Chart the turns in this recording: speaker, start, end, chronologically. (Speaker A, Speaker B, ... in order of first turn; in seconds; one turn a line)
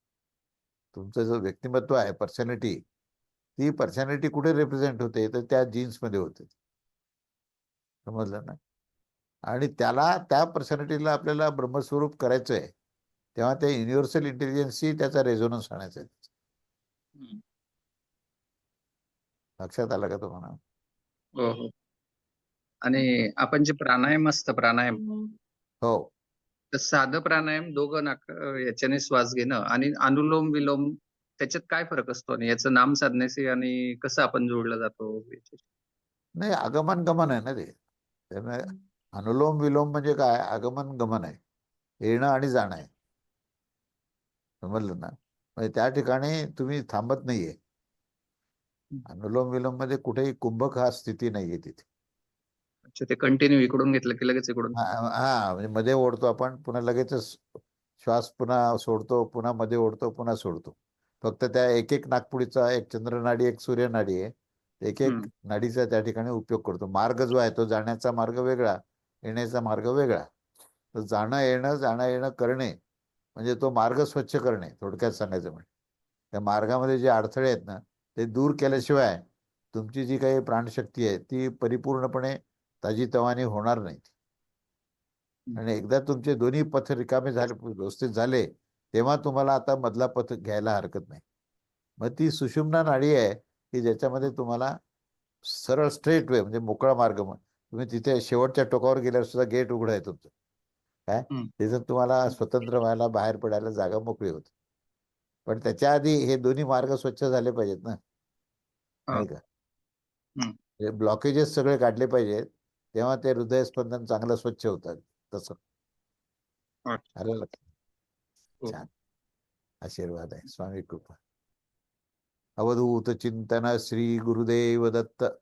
Speaker A: 0.9-2.8
Speaker A: 3.6-6.5
Speaker A: 8.1-8.6
Speaker A: 9.5-12.7
Speaker A: 13.3-16.3
Speaker A: 19.6-20.6
Speaker B: 21.4-21.7
Speaker B: 22.8-25.0
Speaker A: 25.8-26.1
Speaker B: 26.7-35.6
Speaker A: 36.4-37.7
Speaker A: 38.3-41.4
Speaker A: 42.0-42.9
Speaker A: 44.6-47.6
Speaker A: 49.1-51.8
Speaker B: 52.9-54.8
Speaker A: 54.8-64.3
Speaker A: 64.8-70.3
Speaker A: 70.9-72.8
Speaker A: 73.3-75.7
Speaker A: 76.3-84.1
Speaker A: 85.5-91.2
Speaker A: 92.0-94.7
Speaker A: 95.5-100.3
Speaker A: 101.1-104.5
Speaker A: 105.5-108.0
Speaker A: 109.1-109.4
Speaker A: 110.8-115.6
Speaker A: 117.2-117.6
Speaker A: 119.8-121.2
Speaker A: 122.6-125.2